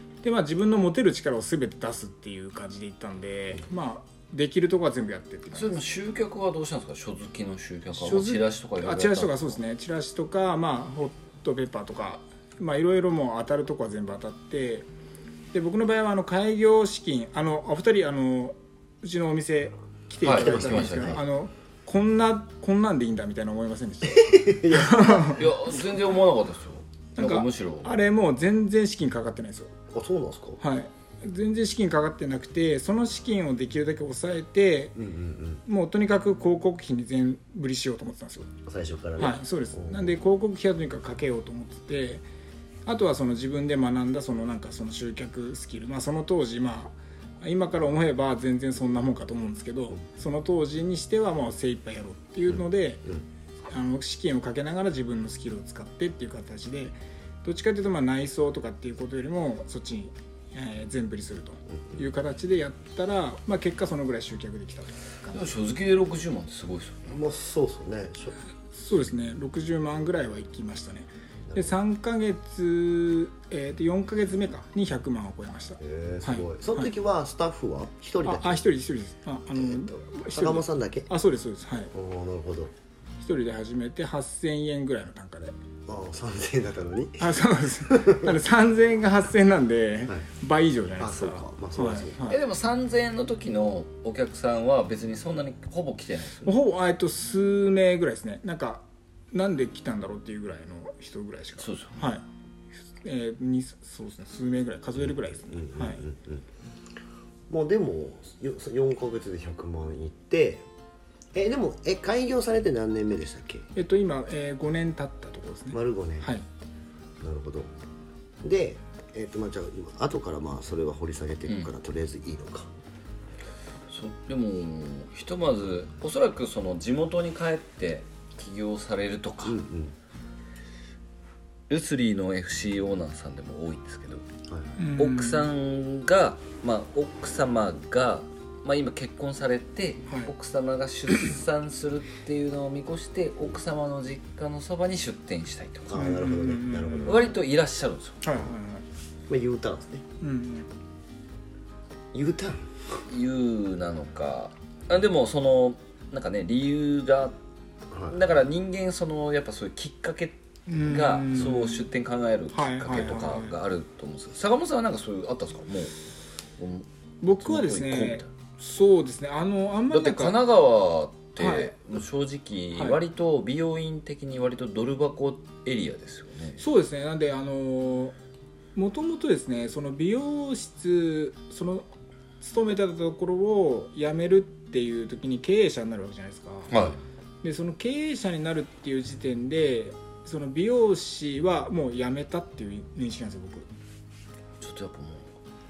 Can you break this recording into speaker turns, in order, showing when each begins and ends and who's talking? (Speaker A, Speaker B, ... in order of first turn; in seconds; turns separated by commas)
Speaker A: 0.2-5.8, Speaker B: 5.5-9.6, Speaker A: 7.9-14.8, Speaker A: 15.5-25.4, Speaker B: 20.2-21.2, Speaker C: 20.3-21.2, Speaker C: 24.2-25.5, Speaker B: 25.3-28.0, Speaker A: 27.2-29.7, Speaker C: 29.9-30.6, Speaker A: 30.6-35.0, Speaker C: 35.0-35.6, Speaker A: 35.6-38.5, Speaker C: 38.6-40.1, Speaker A: 39.2-42.2, Speaker A: 42.9-53.0, Speaker C: 52.5-53.2, Speaker A: 53.7-65.5, Speaker B: 65.3-67.2, Speaker C: 67.1-68.3, Speaker A: 68.7-76.9, Speaker C: 75.8-78.6, Speaker A: 78.2-81.9, Speaker C: 79.6-81.1, Speaker C: 81.9-82.7, Speaker A: 83.2-85.5, Speaker C: 85.9-87.4, Speaker A: 87.2-92.4, Speaker C: 87.9-88.3, Speaker C: 91.0-92.3, Speaker B: 92.3-96.5, Speaker A: 96.4-102.2, Speaker B: 101.6-102.0, Speaker A: 103.0-106.0, Speaker C: 105.0-106.5, Speaker C: 107.5-110.7, Speaker C: 111.3-113.7, Speaker A: 113.8-116.4, Speaker C: 115.7-116.3, Speaker C: 117.2-117.7, Speaker C: 118.4-122.7, Speaker B: 123.9-129.6, Speaker C: 129.4-129.9, Speaker B: 131.7-134.2, Speaker A: 134.8-135.5, Speaker B: 135.0-145.9, Speaker C: 145.9-147.4, Speaker A: 145.9-147.2, Speaker B: 147.0-148.2, Speaker A: 148.2-148.8, Speaker C: 149.3-150.0, Speaker A: 150.2-150.7, Speaker C: 152.1-152.7, Speaker B: 153.1-157.4, Speaker C: 157.9-158.2, Speaker B: 158.1-165.9, Speaker A: 160.7-161.8, Speaker A: 162.5-163.5, Speaker B: 166.6-168.3, Speaker A: 167.2-170.4, Speaker B: 169.9-176.6, Speaker A: 171.4-171.7, Speaker A: 176.6-178.1, Speaker A: 178.7-181.9, Speaker A: 182.4-186.8, Speaker B: 186.7-187.0, Speaker A: 187.4-193.7, Speaker B: 194.6-195.3